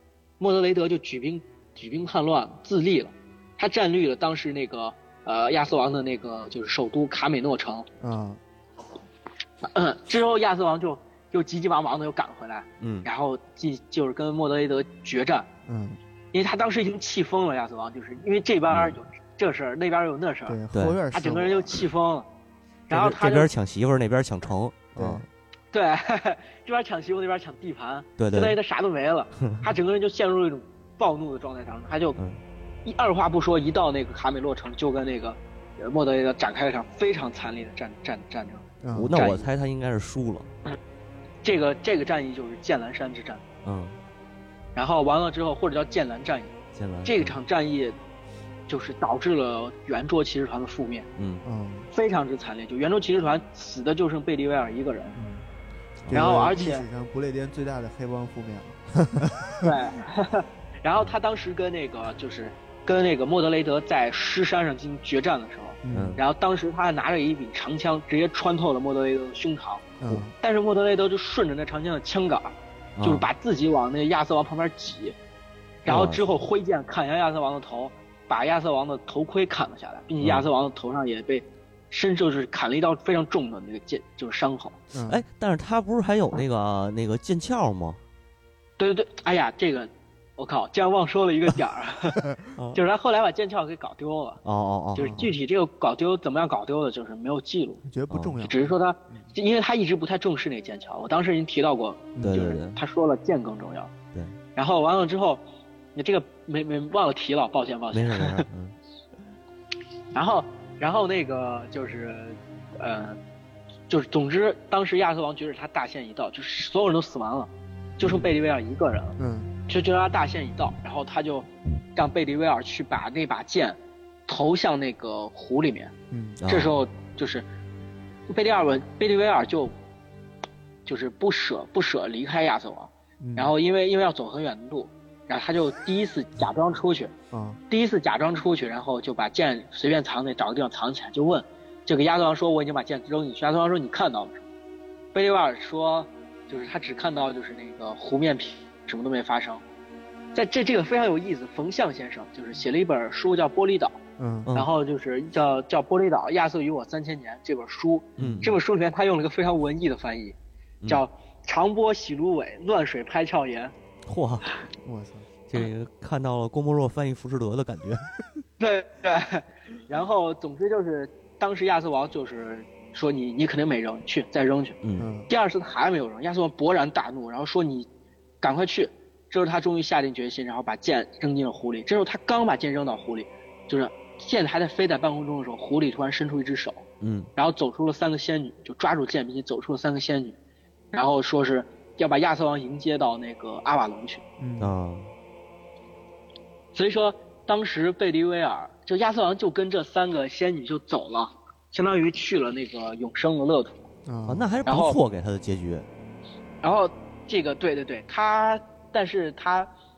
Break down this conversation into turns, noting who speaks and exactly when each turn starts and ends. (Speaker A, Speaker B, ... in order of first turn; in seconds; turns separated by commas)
Speaker A: 0.4-7.9, Speaker B: 8.0-8.4, Speaker A: 9.6-15.5, Speaker C: 12.8-13.1, Speaker B: 15.7-16.0, Speaker A: 16.3-20.6, Speaker C: 18.7-18.9, Speaker B: 20.5-21.8, Speaker C: 20.7-21.0, Speaker A: 21.1-22.3, Speaker A: 22.9-23.5, Speaker C: 22.9-25.3, Speaker B: 24.9-25.2, Speaker A: 25.7-32.2, Speaker C: 28.2-28.6, Speaker A: 32.8-39.5, Speaker B: 38.8-39.2, Speaker C: 38.9-40.5, Speaker A: 41.4-43.4, Speaker C: 43.6-44.0, Speaker A: 44.7-46.5, Speaker C: 46.7-47.4, Speaker A: 47.0-48.0, Speaker A: 48.7-51.1, Speaker C: 51.2-51.4, Speaker B: 51.4-51.9, Speaker A: 51.9-55.2, Speaker B: 55.1-55.5, Speaker C: 56.0-56.4, Speaker B: 56.1-59.7, Speaker A: 56.1-56.8, Speaker A: 59.6-75.2, Speaker B: 65.8-66.2, Speaker C: 65.9-66.2, Speaker B: 70.0-70.3, Speaker C: 73.0-73.3, Speaker A: 75.8-84.8, Speaker C: 75.8-76.3, Speaker C: 80.2-80.5, Speaker B: 84.9-85.2, Speaker C: 85.0-88.0, Speaker A: 88.8-94.4, Speaker C: 92.5-92.8, Speaker C: 94.4-95.3, Speaker A: 94.9-97.8, Speaker B: 95.0-95.3, Speaker B: 97.8-99.2, Speaker C: 98.1-98.4, Speaker A: 98.4-103.9, Speaker B: 102.2-102.5, Speaker C: 102.2-102.8, Speaker A: 104.5-105.4, Speaker A: 105.9-108.4, Speaker C: 107.9-108.7, Speaker A: 110.1-113.2, Speaker A: 113.9-119.2, Speaker C: 118.0-118.3, Speaker B: 119.2-119.5, Speaker A: 119.7-125.9, Speaker B: 126.1-126.4, Speaker C: 126.4-126.8, Speaker A: 126.5-127.5, Speaker A: 128.3-129.7, Speaker A: 130.8-137.1, Speaker B: 133.2-133.5, Speaker B: 137.3-137.6, Speaker A: 137.7-144.4, Speaker A: 145.1-149.6, Speaker A: 150.3-154.0, Speaker B: 154.2-154.5, Speaker A: 154.5-163.7, Speaker C: 158.2-158.6, Speaker B: 158.2-158.5, Speaker C: 164.1-164.5, Speaker B: 164.8-165.3, Speaker C: 165.5-168.1, Speaker A: 168.6-174.8, Speaker C: 174.8-175.1, Speaker B: 175.0-175.3, Speaker A: 175.3-177.9, Speaker A: 178.4-186.8, Speaker C: 187.0-187.3, Speaker A: 187.3-190.4, Speaker A: 190.9-194.2, Speaker B: 194.4-194.7, Speaker C: 194.6-195.1, Speaker A: 196.7-203.8, Speaker B: 204.1-204.5, Speaker C: 204.3-205.9, Speaker A: 204.7-205.0, Speaker A: 206.6-209.7